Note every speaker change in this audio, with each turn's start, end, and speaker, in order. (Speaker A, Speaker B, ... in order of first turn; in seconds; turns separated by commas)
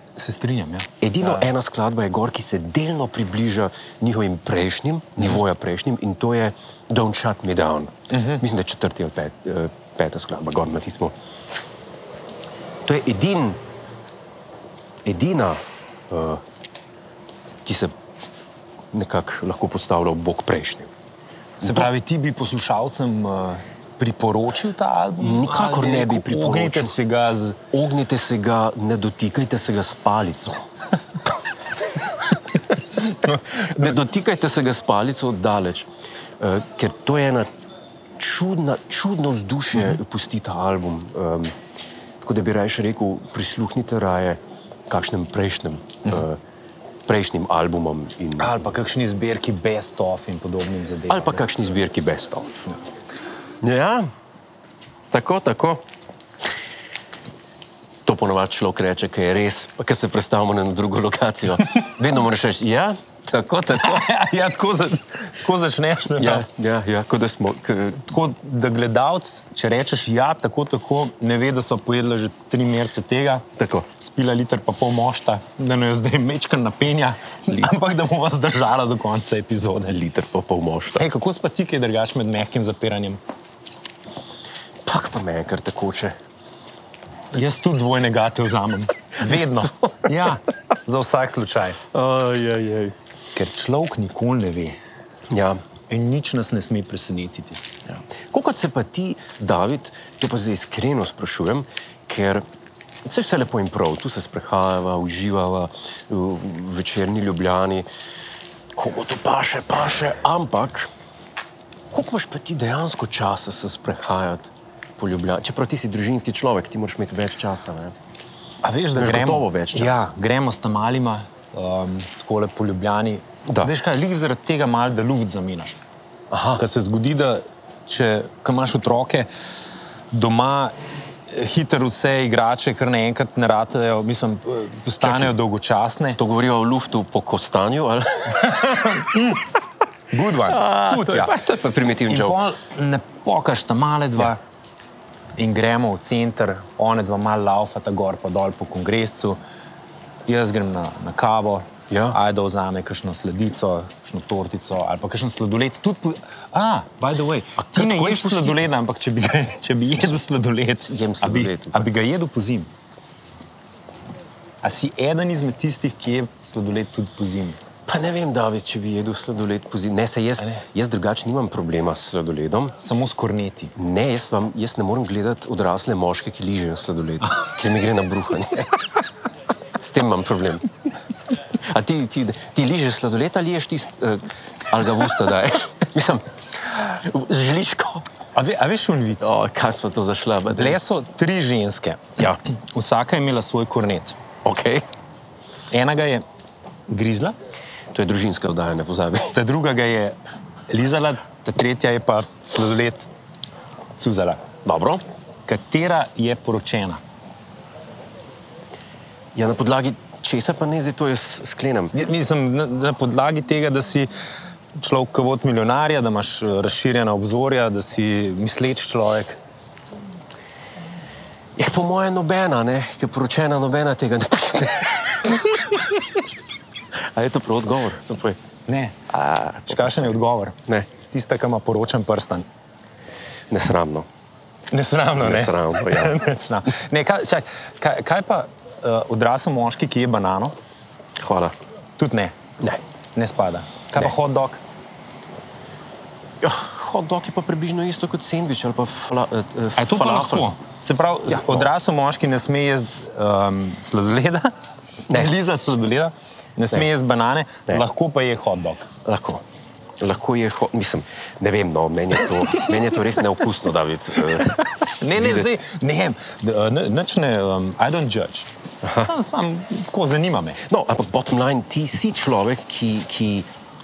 Speaker A: 0.1-1.5, Speaker B: 1.0-11.1, Speaker A: 8.1-8.4, Speaker B: 12.9-13.6, Speaker B: 15.0-16.4, Speaker B: 17.6-17.9, Speaker B: 18.9-20.9, Speaker A: 21.6-27.6, Speaker B: 21.6-21.9, Speaker B: 25.2-27.0, Speaker B: 27.7-30.6, Speaker A: 33.3-34.0, Speaker B: 33.5-35.9, Speaker B: 36.4-37.5, Speaker B: 38.2-41.5, Speaker B: 42.2-46.4, Speaker B: 47.1-48.7, Speaker A: 48.4-51.4, Speaker B: 51.1-52.7, Speaker B: 53.6-54.1, Speaker B: 55.1-55.8, Speaker B: 58.0-64.0, Speaker A: 63.6-66.4, Speaker B: 66.2-68.1, Speaker A: 68.0-73.4, Speaker B: 73.6-73.9, Speaker A: 74.0-80.1, Speaker B: 80.0-81.0, Speaker A: 81.0-83.2, Speaker B: 84.9-86.1, Speaker A: 87.3-91.8, Speaker B: 89.3-89.9, Speaker B: 91.9-92.9, Speaker A: 93.3-94.8, Speaker B: 95.3-95.6, Speaker A: 95.9-97.6, Speaker B: 97.9-102.4, Speaker B: 103.0-107.9, Speaker B: 108.8-110.9, Speaker B: 111.9-117.9, Speaker A: 118.6-125.8, Speaker B: 118.9-120.1, Speaker B: 126.3-126.6, Speaker A: 126.5-129.3, Speaker A: 130.1-130.7, Speaker A: 131.3-136.2, Speaker B: 135.0-135.3, Speaker B: 136.2-139.0, Speaker A: 138.6-139.4, Speaker A: 140.1-141.3, Speaker B: 140.4-142.4, Speaker A: 142.1-144.4, Speaker A: 145.4-149.4, Speaker A: 150.3-162.7, Speaker B: 151.9-152.2, Speaker B: 157.6-158.7, Speaker B: 160.8-161.9, Speaker A: 164.6-167.6, Speaker B: 167.9-172.8, Speaker A: 172.8-173.7, Speaker B: 173.8-178.8, Speaker B: 179.8-180.7, Speaker B: 181.7-188.1, Speaker A: 188.3-189.3, Speaker B: 189.2-190.8, Speaker A: 190.5-194.2, Speaker B: 194.4-194.9, Speaker A: 195.7-196.2, Speaker A: 196.9-197.3, Speaker B: 197.9-199.3, Speaker A: 199.3-200.2, Speaker A: 200.7-203.1, Speaker A: 204.0-204.4, Speaker B: 204.6-205.0, Speaker A: 205.5-207.0, Speaker B: 209.3-211.9, Speaker A: 211.9-214.1, Speaker A: 214.8-219.4, Speaker B: 221.6-225.3, Speaker B: 227.1-228.4, Speaker A: 228.7-229.0, Speaker B: 229.1-230.9, Speaker A: 229.7-230.6, Speaker A: 231.1-232.4, Speaker B: 233.5-234.1, Speaker A: 234.7-240.5, Speaker B: 235.2-236.2, Speaker B: 241.2-241.5, Speaker A: 242.0-242.3, Speaker A: 243.2-244.6, Speaker B: 246.4-250.5, Speaker A: 249.8-254.5, Speaker B: 251.3-251.7, Speaker A: 255.1-258.9, Speaker B: 259.0-259.4, Speaker B: 260.0-265.5, Speaker A: 265.0-270.6, Speaker B: 268.8-269.1, Speaker B: 270.7-273.5